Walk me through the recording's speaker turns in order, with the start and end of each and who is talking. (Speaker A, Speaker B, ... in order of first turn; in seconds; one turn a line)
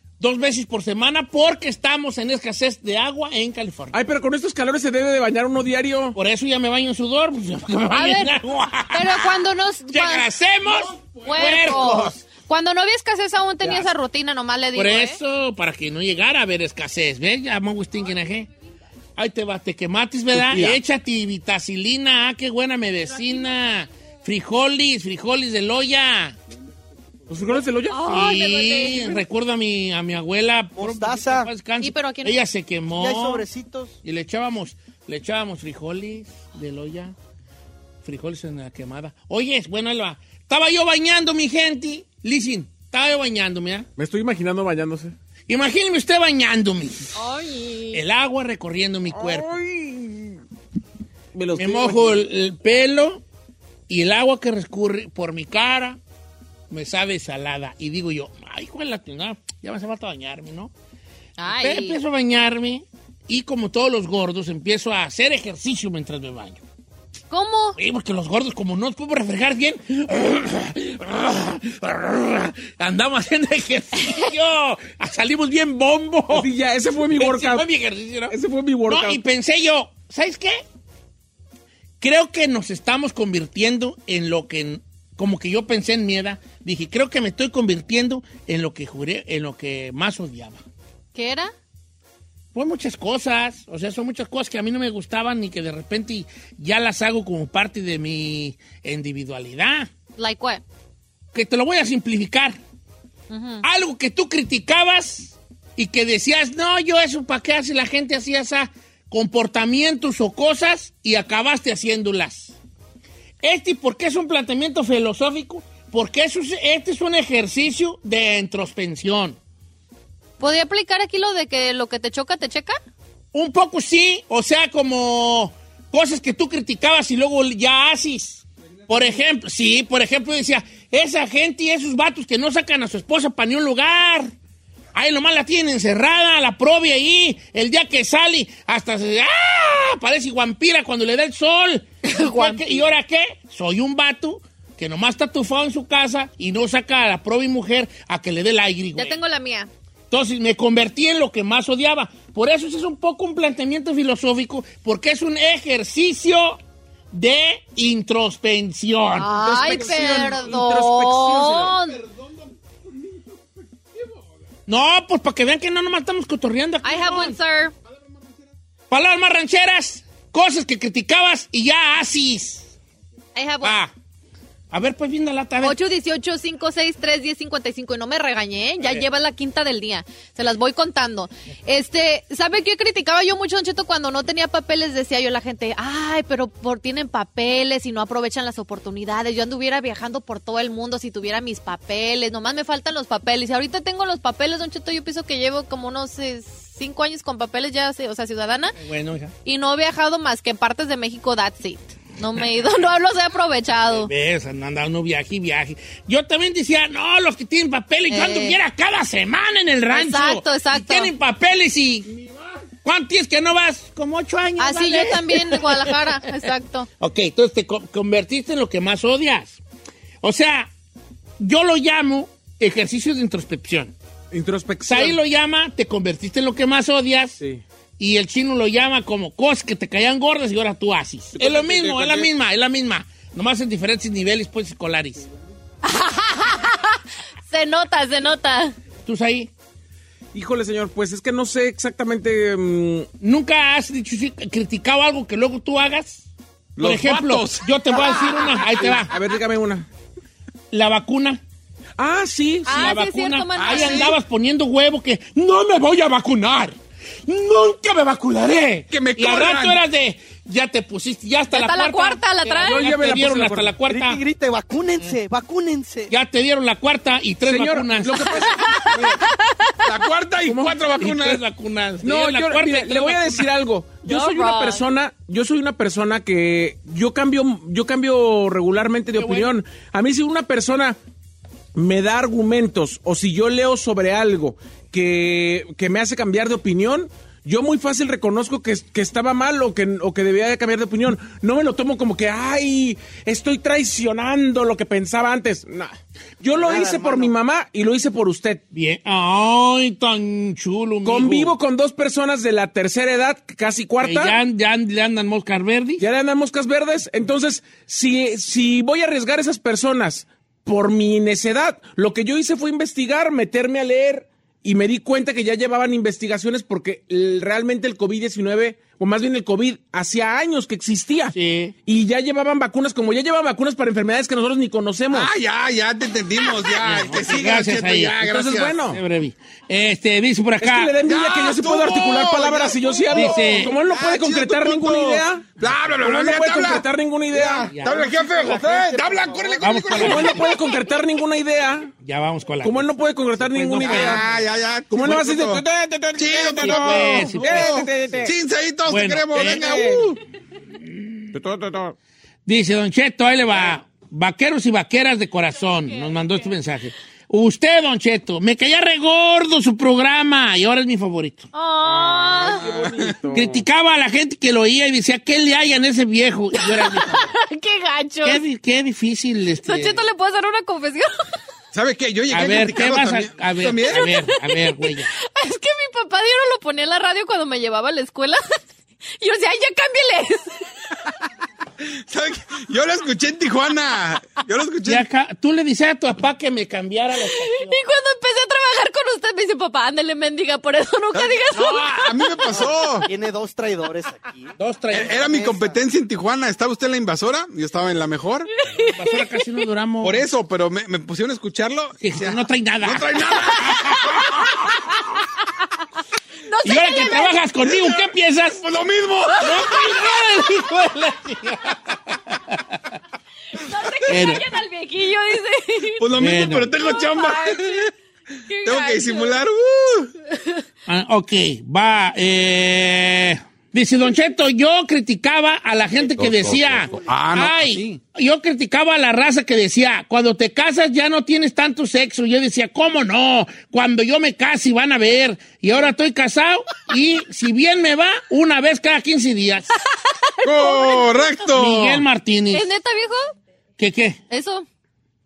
Speaker A: 0.2-4.0
Speaker B: 3.9-6.2
Speaker A: 6.1-12.2
Speaker C: 7.9-8.4
Speaker C: 8.9-10.3
Speaker C: 11.2-15.2
Speaker A: 14.7-18.5
Speaker A: 19.1-26.4
Speaker B: 20.3-20.8
Speaker B: 27.3-28.1
Speaker C: 27.9-29.2
Speaker A: 28.0-33.5
Speaker D: 30.8-31.5
Speaker C: 31.8-32.4
Speaker D: 32.9-33.9
Speaker A: 34.0-37.1
Speaker A: 38.0-43.9
Speaker B: 44.0-45.1
Speaker A: 45.5-47.2
Speaker C: 47.1-48.0
Speaker A: 47.9-49.5
Speaker B: 49.1-50.4
Speaker B: 51.3-52.2
Speaker A: 51.5-53.2
Speaker A: 53.9-56.0
Speaker A: 56.7-60.7
Speaker C: 61.4-62.0
Speaker A: 61.5-66.6
Speaker C: 67.3-67.8
Speaker A: 67.8-76.5
Speaker B: 76.3-77.7
Speaker A: 77.1-78.3
Speaker B: 78.3-79.2
Speaker A: 78.9-80.6
Speaker A: 82.0-90.6
Speaker C: 91.1-91.5
Speaker A: 92.5-99.9
Speaker C: 100.2-100.6
Speaker A: 101.3-102.6
Speaker C: 103.3-103.6
Speaker A: 103.6-112.5
Speaker A: 113.4-119.4
Speaker C: 120.4-122.8
Speaker A: 123.3-134.3
Speaker A: 134.9-149.2
Speaker C: 142.0-142.8
Speaker C: 149.0-149.7
Speaker A: 150.1-156.6
Speaker A: 157.1-159.3
Speaker C: 159.2-162.0
Speaker B: 159.4-161.8
Speaker A: 164.7-167.4
Speaker C: 166.8-167.7
Speaker A: 168.9-172.7
Speaker C: 173.3-173.8
Speaker A: 173.6-173.9
Speaker A: 174.7-175.8
Speaker C: 175.6-198.7
Speaker A: 198.8-199.3
Speaker C: 199.4-204.1
Speaker A: 203.9-212.2
Speaker C: 208.1-208.6
Speaker C: 209.9-211.1
Speaker A: 212.8-216.1
Speaker C: 214.6-216.9
Speaker A: 217.0-219.6
Speaker A: 220.2-220.7
Speaker A: 221.4-223.9
Speaker B: 224.3-225.2
Speaker A: 224.9-227.4
Speaker A: 228.0-235.3
Speaker B: 231.3-232.3
Speaker C: 235.8-238.8
Speaker A: 239.1-239.5
Speaker B: 240.3-243.1
Speaker A: 243.2-246.3
Speaker E: 246.8-248.6
Speaker A: 246.8-249.1
Speaker B: 248.8-249.9
Speaker A: 250.7-251.4
Speaker B: 252.0-252.9
Speaker C: 252.7-254.2
Speaker A: 252.7-264.2
Speaker E: 253.6-254.2
Speaker E: 258.9-259.8
Speaker C: 261.5-262.8
Speaker B: 262.6-263.8
Speaker D: 263.9-266.1
Speaker A: 266.1-268.7
Speaker B: 267.4-269.2
Speaker C: 268.4-268.9
Speaker C: 269.4-269.7
Speaker E: 269.8-271.4
Speaker B: 270.4-270.7
Speaker A: 271.0-273.5
Speaker B: 272.0-281.0
Speaker C: 274.0-274.8
Speaker A: 279.1-279.5
Speaker B: 281.7-298.6
Speaker D: 296.5-297.3
Speaker A: 298.7-301.6
Speaker B: 301.0-304.4
Speaker A: 304.0-306.0
Speaker B: 306.0-321.3
Speaker A: 321.3-321.7
Speaker B: 321.9-325.3
Speaker E: 325.1-328.8
Speaker A: 326.8-328.2
Speaker B: 328.2-329.0
Speaker A: 328.9-330.9
Speaker B: 330.6-337.7
Speaker E: 331.0-340.7
Speaker A: 333.1-333.7
Speaker D: 337.3-340.5
Speaker A: 337.6-338.0
Speaker A: 339.6-340.4
Speaker B: 339.9-341.9
Speaker A: 342.0-344.2
Speaker B: 342.6-344.2
Speaker E: 343.8-350.1
Speaker B: 344.9-348.3
Speaker A: 346.6-347.9
Speaker A: 348.9-350.1
Speaker B: 349.5-350.1
Speaker A: 350.9-351.3
Speaker B: 351.3-351.9
Speaker A: 352.4-361.5
Speaker C: 355.6-356.5
Speaker C: 361.5-362.6
Speaker B: 361.8-363.6
Speaker E: 362.5-363.1
Speaker A: 363.3-367.2
Speaker C: 366.7-368.4
Speaker A: 368.2-370.0
Speaker C: 369.6-371.1
Speaker E: 371.7-374.1
Speaker A: 372.3-375.1
Speaker C: 373.9-378.6
Speaker C: 379.2-380.6
Speaker E: 381.8-385.0
Speaker A: 384.9-387.8
Speaker C: 387.3-392.5
Speaker E: 391.1-393.1
Speaker D: 393.0-395.8
Speaker A: 394.6-395.3
Speaker E: 394.9-398.5
Speaker A: 398.8-400.2
Speaker C: 398.8-399.5
Speaker E: 400.0-404.6
Speaker A: 402.0-404.3
Speaker C: 406.4-407.4
Speaker A: 406.6-408.6
Speaker E: 407.6-409.8
Speaker A: 409.4-412.8
Speaker C: 413.5-416.0
Speaker A: 414.1-414.4
Speaker E: 415.9-417.9
Speaker A: 416.2-416.7
Speaker C: 416.8-417.9
Speaker C: 418.5-419.4
Speaker E: 418.6-420.1
Speaker C: 420.3-420.6
Speaker A: 420.9-439.8
Speaker E: 426.1-428.0
Speaker E: 440.4-442.0
Speaker C: 440.4-441.2
Speaker A: 441.5-442.7
Speaker C: 442.5-443.3
Speaker A: 443.8-444.2
Speaker C: 444.3-444.6